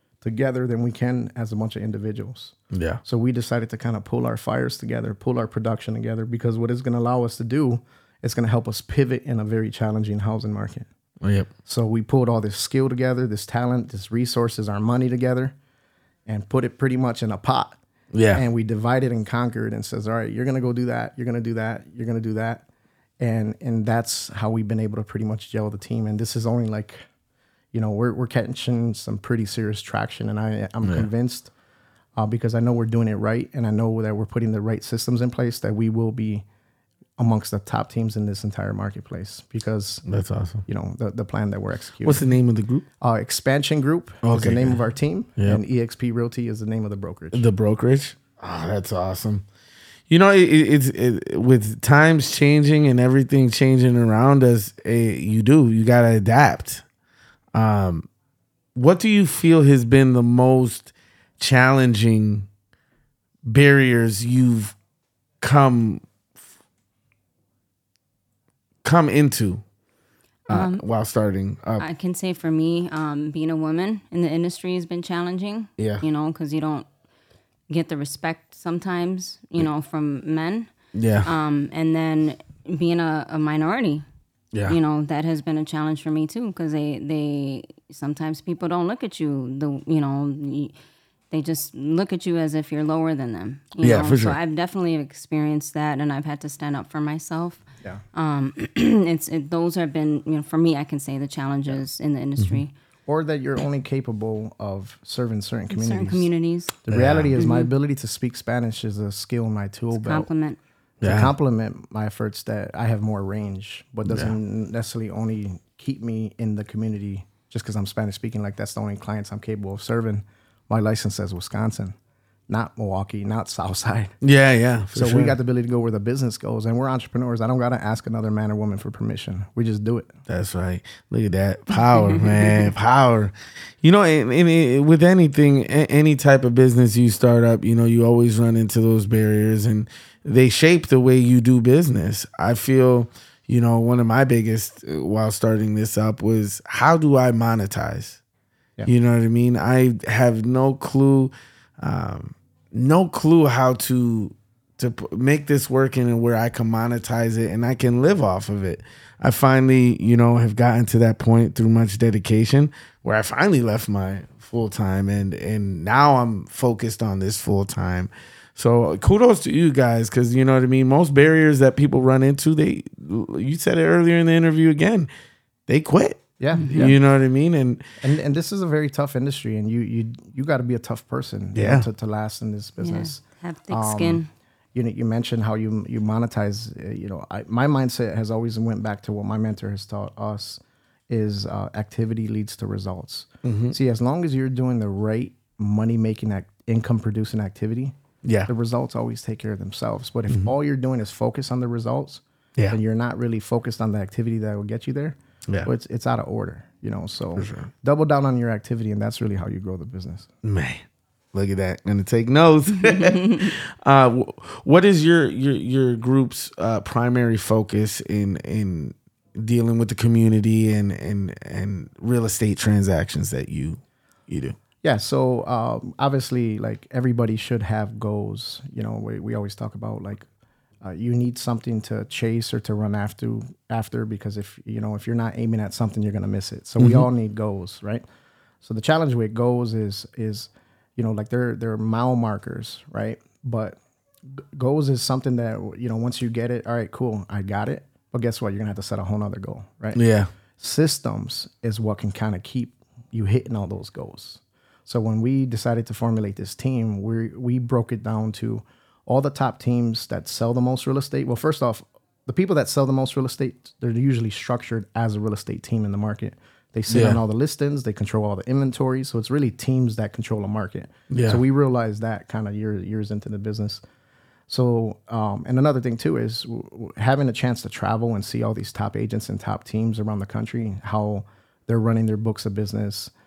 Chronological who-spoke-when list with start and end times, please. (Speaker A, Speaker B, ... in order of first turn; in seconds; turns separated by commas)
Speaker A: 0.2-10.9, Speaker B: 2.7-3.0, Speaker B: 11.2-11.5, Speaker A: 11.7-15.6, Speaker A: 16.3-17.8, Speaker B: 18.1-18.4, Speaker A: 18.3-22.6, Speaker A: 23.2-27.0, Speaker A: 27.7-31.5, Speaker B: 30.8-31.1, Speaker A: 32.2-36.5, Speaker A: 37.2-40.0, Speaker B: 40.1-40.6, Speaker A: 40.7-42.2, Speaker B: 42.0-42.9, Speaker A: 43.0-47.5, Speaker B: 44.2-44.8, Speaker B: 47.3-49.5, Speaker B: 50.1-56.8, Speaker B: 57.5-58.1, Speaker B: 58.8-62.5, Speaker B: 63.5-64.8, Speaker B: 65.4-66.0, Speaker B: 68.8-69.6, Speaker C: 70.5-70.8, Speaker B: 70.5-71.8, Speaker C: 71.8-76.9, Speaker B: 75.8-76.0, Speaker C: 77.7-80.7, Speaker B: 80.9-81.3, Speaker C: 81.2-84.0, Speaker B: 84.5-84.8, Speaker C: 84.7-90.7, Speaker C: 91.3-102.7, Speaker B: 93.8-94.4, Speaker A: 103.1-106.3, Speaker C: 105.7-106.8, Speaker A: 106.8-110.3, Speaker B: 106.9-107.3, Speaker C: 107.4-107.7, Speaker C: 110.0-110.6, Speaker B: 111.0-111.3, Speaker A: 111.0-122.0, Speaker B: 114.1-114.3, Speaker A: 122.5-124.1, Speaker B: 124.2-125.3, Speaker A: 124.9-130.1, Speaker B: 130.3-148.2, Speaker B: 148.9-175.1, Speaker B: 175.7-177.9, Speaker A: 176.4-177.0, Speaker C: 176.6-176.9, Speaker A: 178.0-184.2, Speaker B: 181.6-181.9, Speaker C: 182.8-184.3, Speaker A: 184.8-210.3, Speaker B: 193.4-193.8, Speaker B: 198.2-198.5, Speaker B: 207.4-207.7, Speaker B: 210.4-224.6, Speaker C: 212.8-213.5, Speaker A: 224.8-230.3, Speaker A: 230.8-238.0, Speaker B: 236.8-237.1, Speaker A: 238.6-243.8, Speaker A: 244.4-250.0, Speaker B: 249.9-250.3, Speaker A: 250.6-273.8, Speaker B: 266.9-267.2, Speaker B: 271.1-271.4, Speaker A: 274.5-283.1